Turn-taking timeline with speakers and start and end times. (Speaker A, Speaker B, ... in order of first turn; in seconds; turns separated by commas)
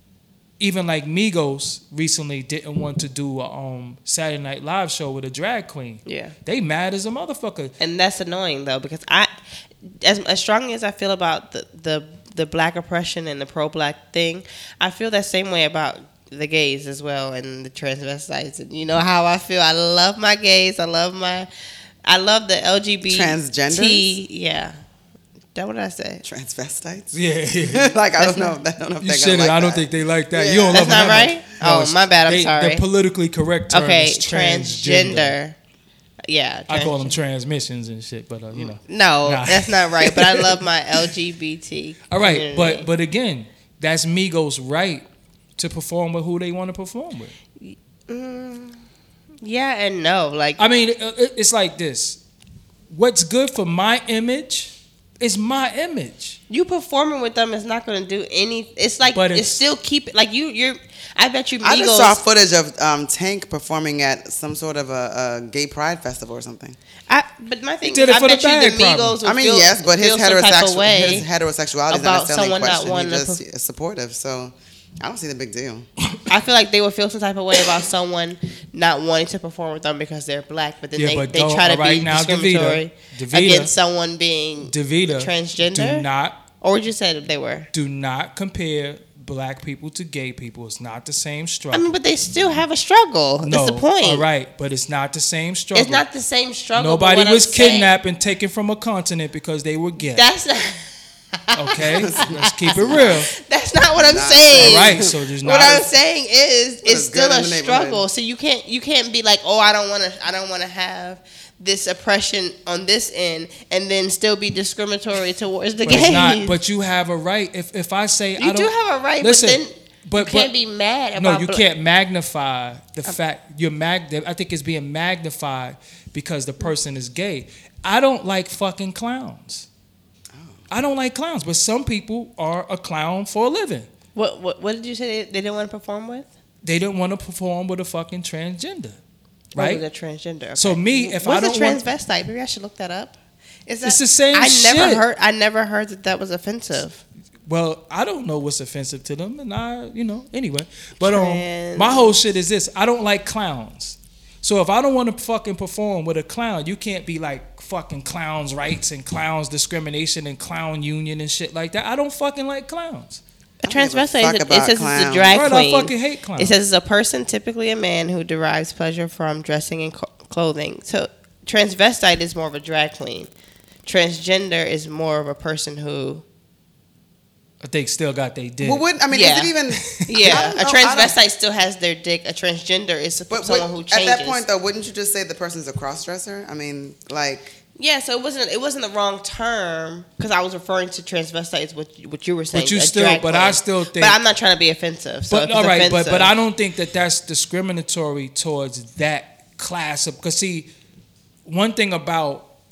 Speaker A: 0.6-7.7, Speaker B: 6.1-6.3, Speaker B: 7.8-9.3, Speaker B: 9.9-21.5, Speaker B: 22.1-24.8, Speaker C: 23.1-24.1, Speaker B: 25.6-26.2, Speaker C: 26.2-31.3, Speaker A: 27.1-27.9, Speaker B: 28.2-28.5, Speaker A: 29.0-35.4, Speaker B: 30.7-32.8, Speaker B: 33.7-35.6, Speaker B: 36.3-37.2, Speaker A: 36.7-40.6, Speaker B: 38.5-42.9, Speaker A: 42.1-45.0, Speaker A: 45.6-47.3, Speaker B: 47.6-48.8, Speaker B: 49.4-50.6, Speaker A: 50.6-52.2, Speaker A: 52.9-56.4, Speaker B: 56.5-62.2, Speaker A: 59.1-59.6, Speaker C: 61.6-66.8, Speaker B: 67.1-71.3, Speaker A: 67.8-69.2, Speaker C: 69.2-75.9, Speaker B: 71.9-73.4, Speaker B: 76.3-86.1, Speaker A: 81.0-83.7, Speaker A: 84.7-86.4, Speaker B: 86.6-87.7, Speaker A: 87.7-91.9, Speaker B: 91.7-94.2, Speaker A: 93.4-96.0, Speaker B: 95.7-97.9, Speaker A: 96.8-100.2, Speaker B: 100.0-116.5, Speaker A: 101.5-103.3, Speaker C: 101.7-103.2, Speaker C: 104.0-105.2, Speaker A: 104.6-105.9, Speaker C: 106.8-108.0, Speaker A: 115.8-120.5, Speaker B: 118.4-121.6, Speaker A: 121.2-129.7, Speaker C: 130.3-130.6, Speaker A: 130.7-133.9, Speaker B: 134.2-136.3, Speaker A: 136.6-139.0, Speaker B: 139.6-143.1, Speaker A: 139.6-139.8, Speaker A: 140.6-141.8, Speaker B: 143.7-147.0, Speaker A: 143.8-145.1, Speaker A: 147.5-163.2, Speaker B: 151.0-152.2, Speaker C: 163.6-165.4, Speaker B: 163.6-173.3, Speaker A: 165.3-166.6, Speaker B: 173.8-176.2, Speaker A: 177.6-178.8, Speaker C: 178.6-181.2, Speaker B: 179.1-184.4, Speaker A: 179.8-180.5, Speaker C: 183.3-187.5, Speaker B: 187.8-196.3, Speaker A: 192.5-194.2, Speaker A: 195.3-200.7, Speaker A: 201.5-202.5